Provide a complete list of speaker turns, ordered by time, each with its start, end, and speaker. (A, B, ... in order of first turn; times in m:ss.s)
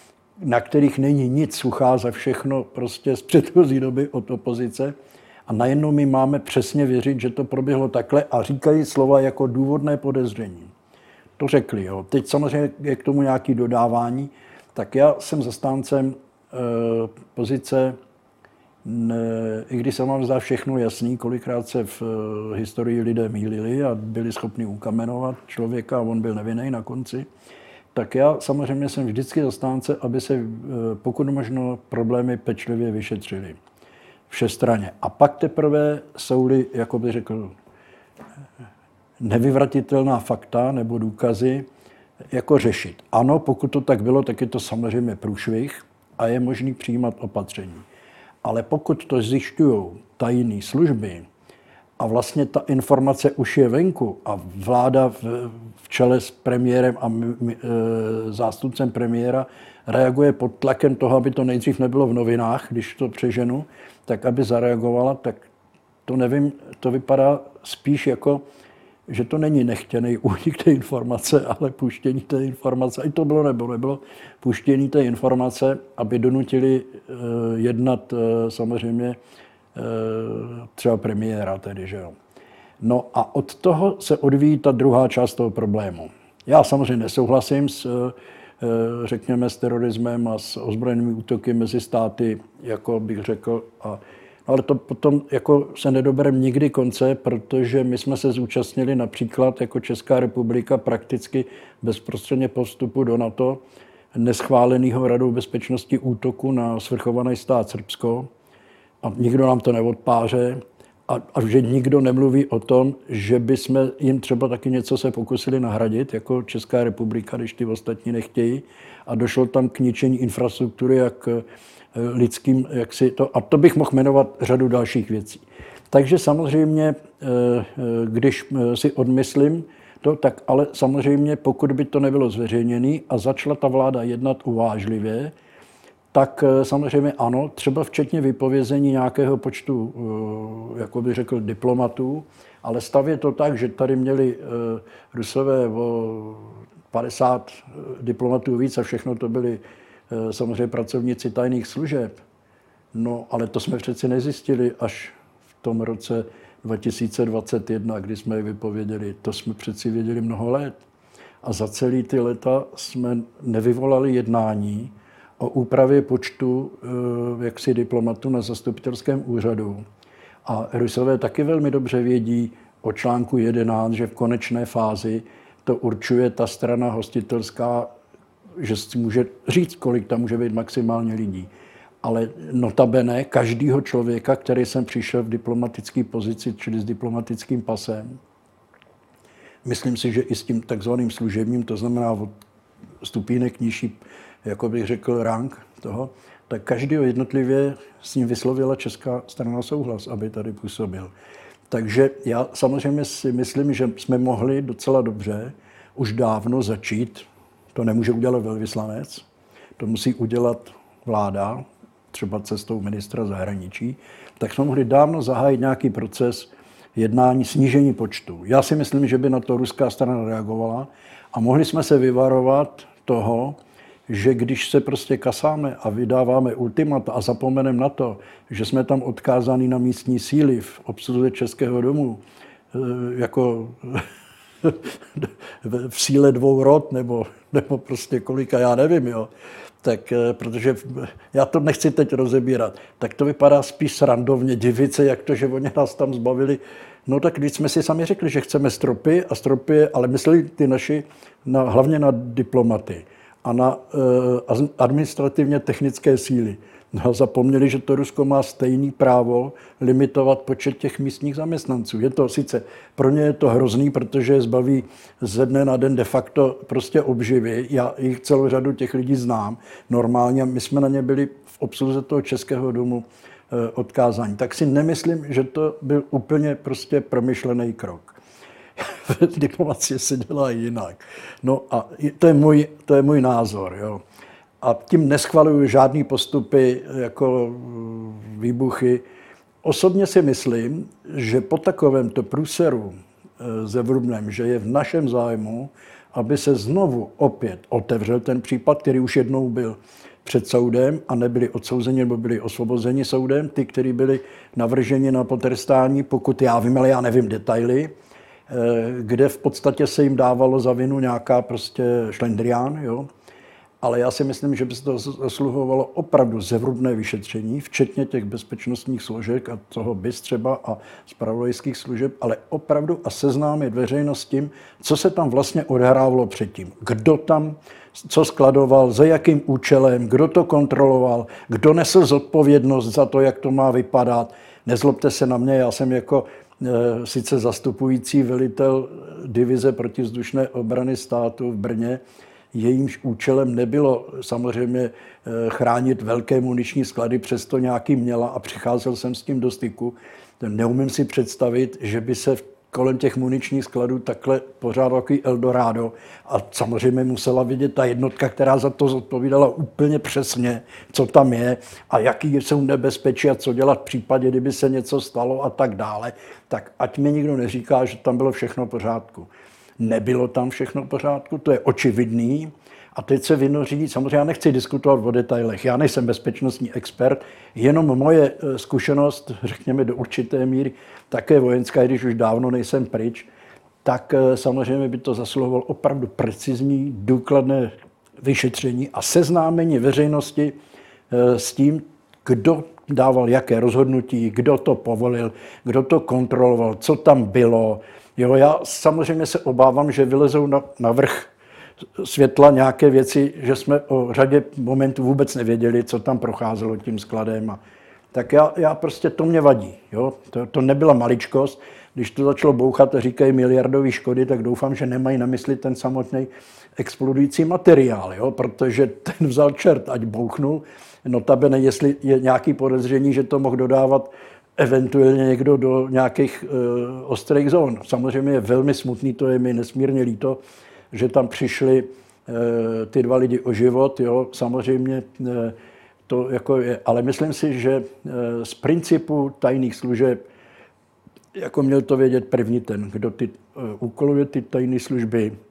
0:00.4-0:04.9 A
0:05.5-0:10.7 A
0:11.4-0:18.0 A
0:18.8-0:27.3 A
0:28.0-0:33.6 A
0:34.3-0:37.6 A
0:39.2-0:41.7 A
0:42.3-0:47.9 A
0:48.4-0:51.3 A
0:52.0-1:05.4 A
1:06.1-1:08.4 A
1:09.1-1:19.2 A
1:19.8-1:22.2 A
1:22.8-1:43.6 A
1:44.1-1:48.3 A
1:49.0-2:15.3 A
2:16.1-2:32.1 A
2:32.9-2:40.8 A
2:41.4-2:49.8 A
2:50.4-2:57.9 A
2:58.6-3:01.5 A
3:02.0-3:08.2 A
3:09.6-3:12.4 A
3:13.0-3:21.1 A
3:21.7-3:29.2 A
3:29.8-3:52.2 A
3:52.7-3:54.0 A
3:54.6-3:59.3 A
3:59.8-4:38.2 A
4:38.8-4:44.0 A
4:44.6-4:49.0 A
4:49.6-5:07.9 A
5:08.5-5:13.1 A
5:13.8-5:42.0 A
5:42.5-6:23.3 A
6:23.8-6:30.6 A
6:31.1-6:41.3 A
6:42.0-6:47.6 A
6:48.1-7:10.4 A
7:10.9-7:15.6 A
7:16.1-7:20.2 A
7:21.4-7:25.3 A